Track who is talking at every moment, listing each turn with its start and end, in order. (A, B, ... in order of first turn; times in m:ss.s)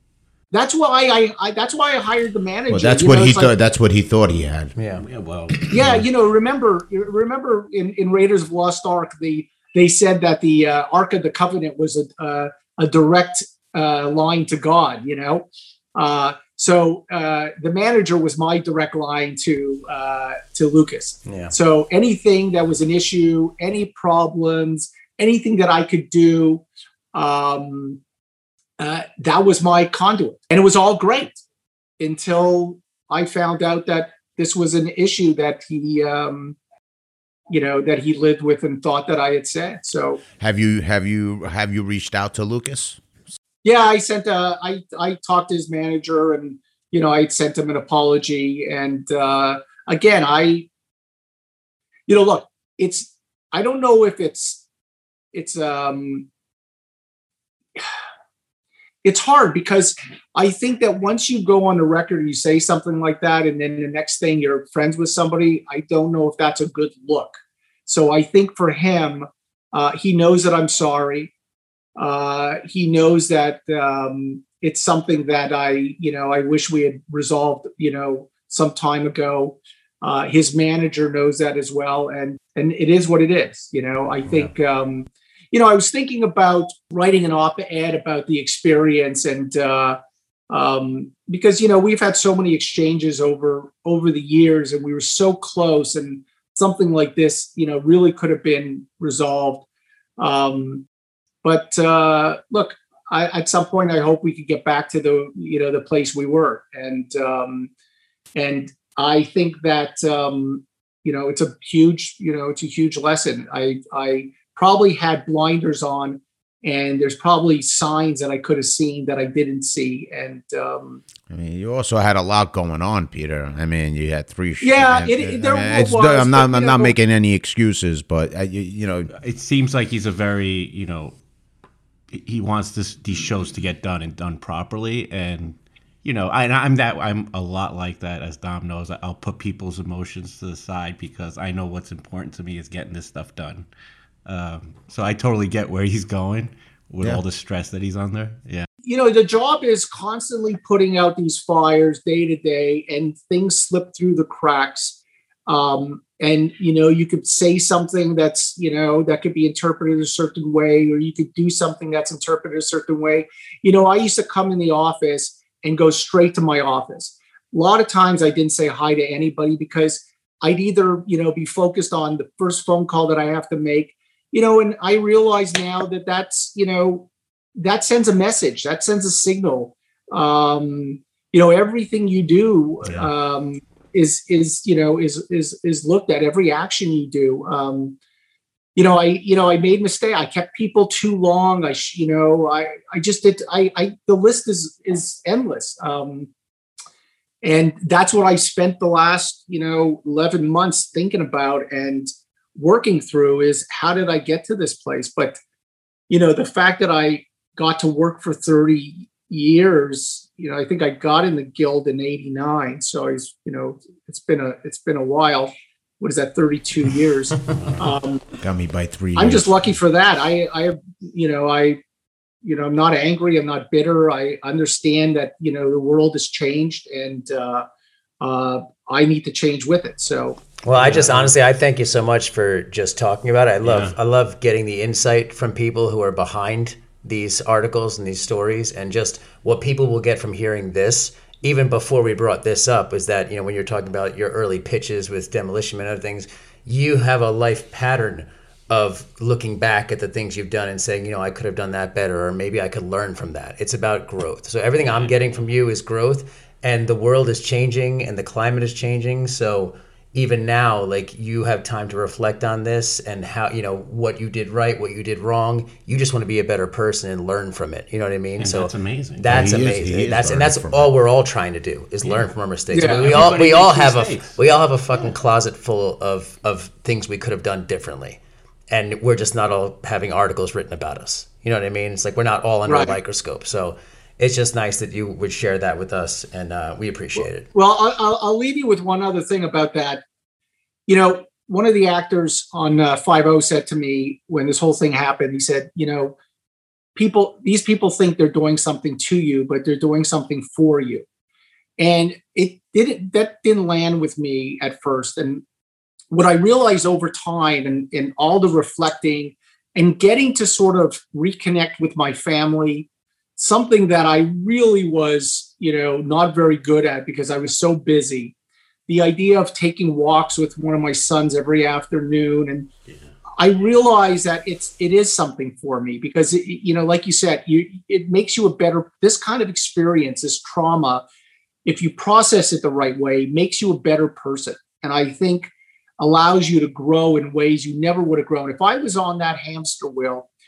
0:00.5-0:03.5 A
0:02.7-0:04.7 B
0:04.8-0:05.0 C
0:05.0-0:05.9 D
0:05.7-0:28.0 A
0:21.3-0:21.5 C
0:28.8-0:31.4 A
0:32.0-0:36.6 A
0:37.5-0:40.2 A
0:40.4-0:43.0 B
0:43.6-0:50.7 A
0:52.1-0:54.6 A
0:55.3-0:56.3 A
0:59.0-1:11.3 A
1:12.0-1:30.0 A
1:24.3-1:24.5 C
1:30.5-1:39.7 A
1:40.2-1:40.8 A
1:41.4-1:47.7 A
1:48.4-2:01.0 A
2:01.3-2:09.1 B
2:04.6-2:07.0 A
2:09.1-2:11.2 D
2:12.1-2:23.7 D
2:24.3-2:28.7 D
2:28.9-3:08.0 A
3:08.8-3:16.3 A
3:17.4-3:25.4 A
3:26.1-3:38.2 A
3:37.6-3:37.9 D
3:38.4-3:39.6 B
3:39.2-3:41.8 A
3:42.4-3:47.7 A
3:48.2-3:50.4 A
3:50.6-4:38.2 C
3:50.7-3:51.4 D
3:53.6-3:54.0 D
4:14.8-4:15.2 D
4:28.4-4:29.4 D
4:29.2-4:30.9 B
4:32.0-4:32.3 D
4:32.7-4:33.1 A
4:32.8-4:34.4 D
4:38.7-4:47.5 C
4:42.7-4:43.0 A
4:47.2-4:50.0 A
4:50.9-4:56.2 A
4:57.0-5:01.0 A
5:01.8-5:05.4 A
5:06.1-5:18.3 A
5:18.9-5:22.7 A
5:23.4-5:31.0 A
5:31.6-5:40.3 A